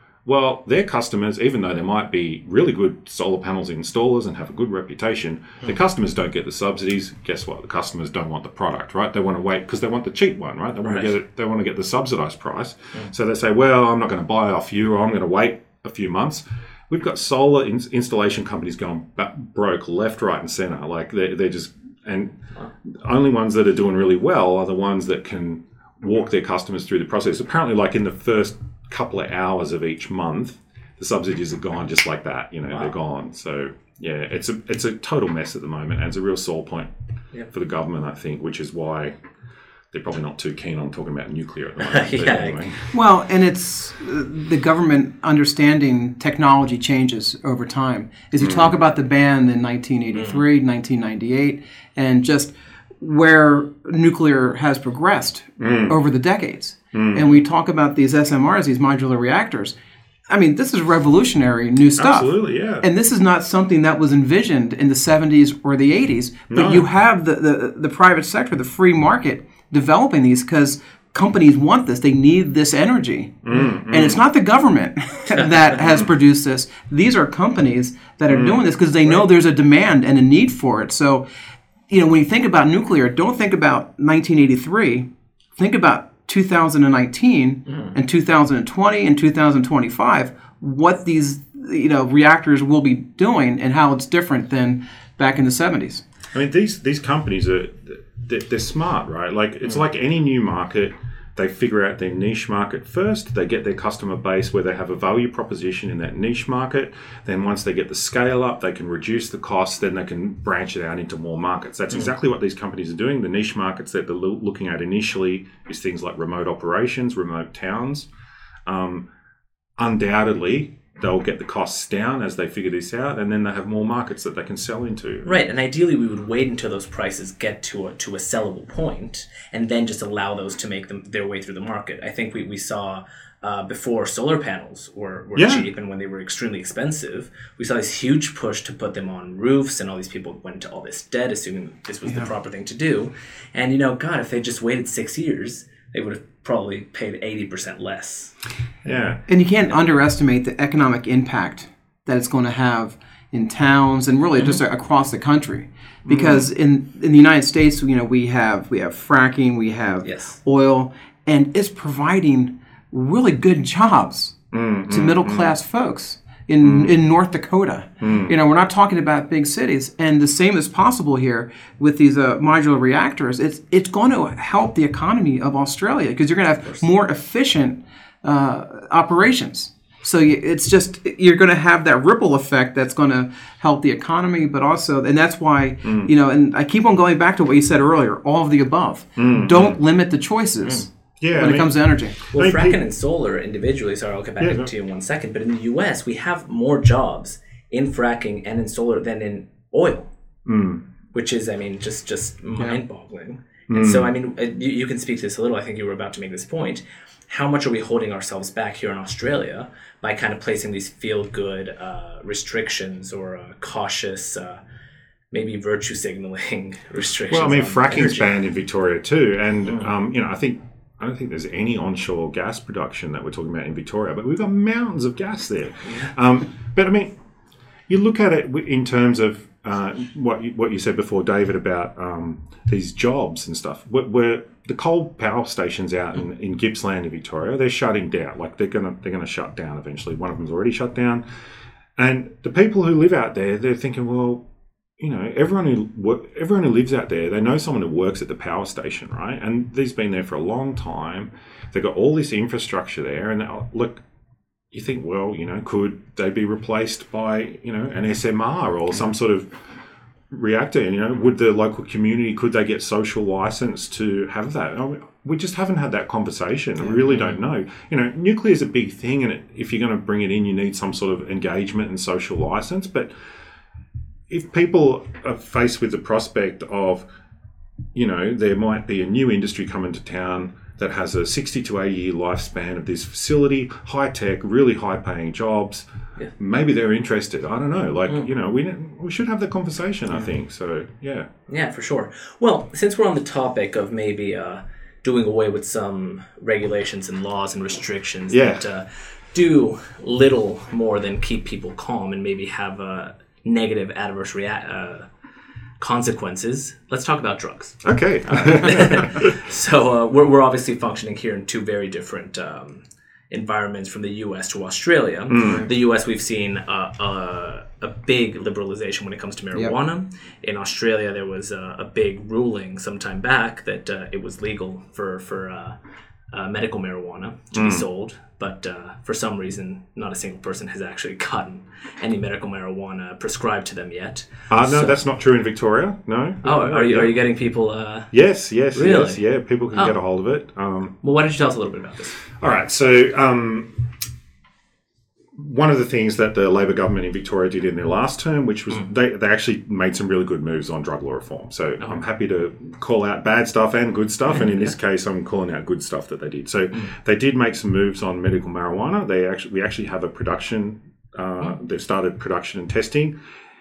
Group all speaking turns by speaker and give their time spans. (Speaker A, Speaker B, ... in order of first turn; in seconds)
Speaker A: 0.2-36.9, 37.5-39.1, 39.9-42.9, 48.4-48.7, 55.6-56.0, 56.9-57.3, 62.0-62.9, 66.5-66.8, 73.4-74.2, 78.3-78.7, 96.3-118.1, 118.7-119.1, 119.8-125.4, 135.3-135.7, 148.8-149.2, 156.1-156.4, 164.5-165.5, 166.6-166.9, 168.0-168.3, 185.8-186.1, 189.2-189.8, 191.2-192.8, 194.4-194.7, 200.5-200.8, 203.7-204.1, 217.3-227.1, 227.9-241.2, 242.0-244.4, 245.0-254.0, 254.7-259.5, 260.3-273.1, 274.3-277.1, 277.9-285.9, 286.4-291.3, 298.3-298.7, 307.8-309.3, 315.3-315.7, 327.5-327.9, 334.5-337.1, 338.1-340.9, 342.3-343.9, 345.4-363.1
Speaker B: 10.8-11.1, 41.9-42.6, 50.1-50.4, 125.2-148.3, 160.0-160.4, 192.3-200.1, 201.1-214.6, 215.3-218.3, 267.0-267.4, 291.5-305.1, 305.8-325.8, 326.3-335.0, 336.4-338.1, 338.8-339.2, 341.0-342.2
Speaker C: 42.9-59.8, 60.3-81.2, 81.9-96.0, 149.3-164.4, 164.9-192.2, 315.4-315.7